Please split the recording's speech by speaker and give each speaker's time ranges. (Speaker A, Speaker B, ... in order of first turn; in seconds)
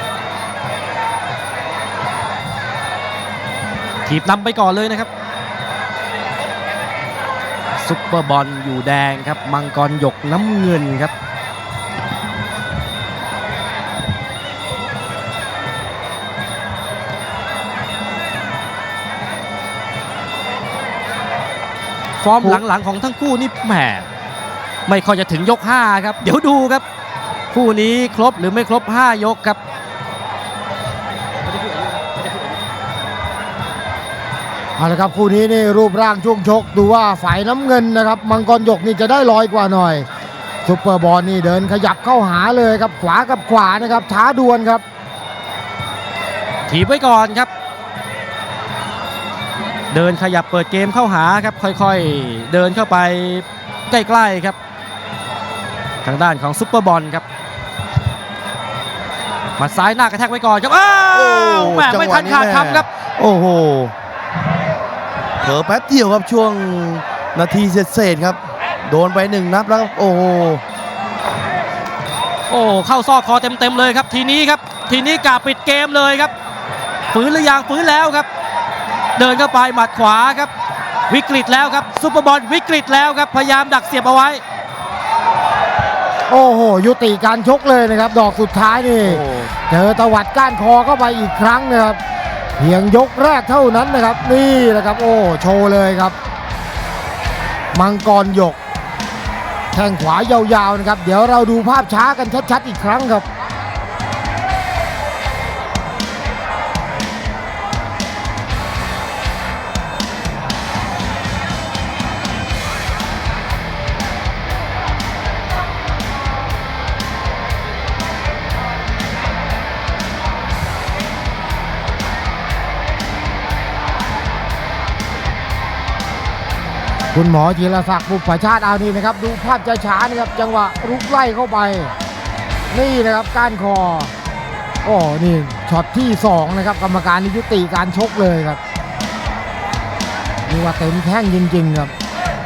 Speaker A: 4.1-5.1, 7.8-11.1, 22.2-24.1, 24.9-26.8, 27.5-29.6, 46.7-47.5, 49.9-54.6, 56.0-57.2, 59.6-62.9, 72.5-76.3, 77.1-78.3, 79.2-80.5, 81.1-84.4
Speaker B: 34.8-40.1, 40.6-44.8, 86.3-92.0, 92.6-96.2, 97.7-98.6, 99.7-103.2, 127.1-131.9, 132.7-134.1, 134.8-138.6, 140.5-141.9
Speaker C: 61.1-63.9, 65.4-70.6, 89.1-89.5